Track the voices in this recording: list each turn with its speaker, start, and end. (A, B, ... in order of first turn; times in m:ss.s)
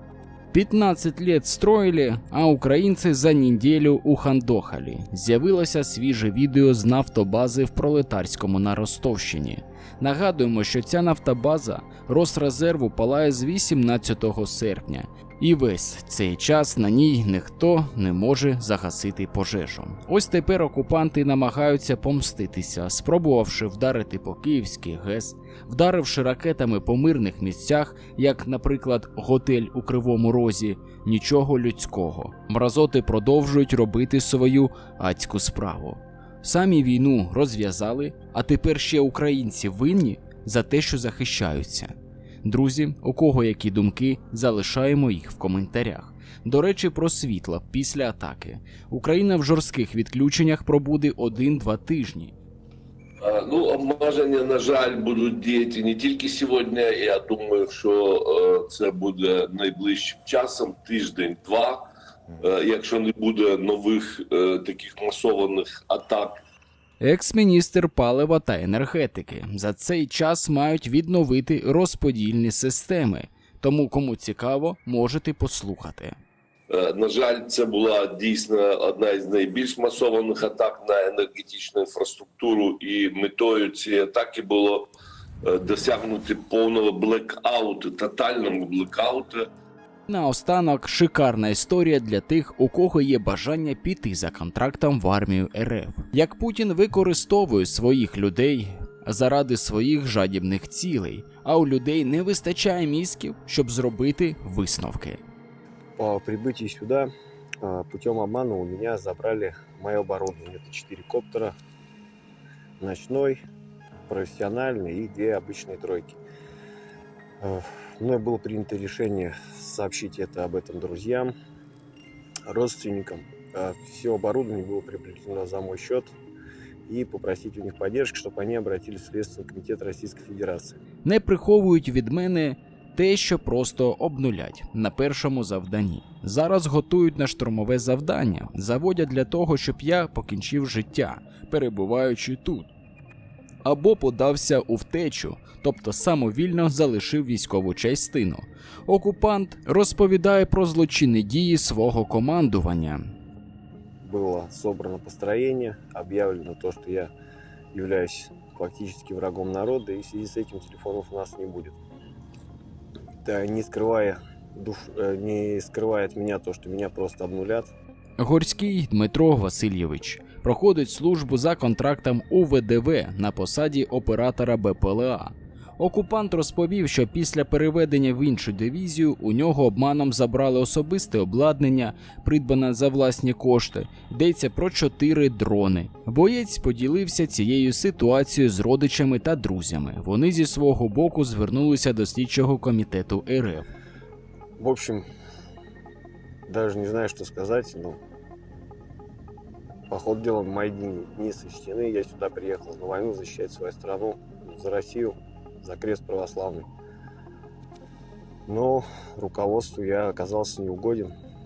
0:00.5-0:52.3 A
0:53.2-1:01.8 B
1:02.4-1:06.4 B
1:07.0-1:16.2 A
1:16.7-1:24.9 B
1:25.4-1:29.5 B
1:30.1-1:45.2 A
1:46.0-1:47.1 C
1:47.6-1:51.5 C
1:52.8-1:53.4 C
1:54.1-1:56.2 C
1:57.4-2:01.3 C
2:02.5-2:06.1 C
2:06.9-2:10.8 C
2:11.0-2:22.7 A
2:23.6-2:33.0 A
2:34.0-2:37.1 C
2:37.7-2:41.8 C
2:43.2-2:47.7 C
2:48.2-3:13.7 A
3:14.6-3:15.0 C
3:16.5-3:18.0 C
3:19.9-3:26.7 C
3:28.5-3:31.1 C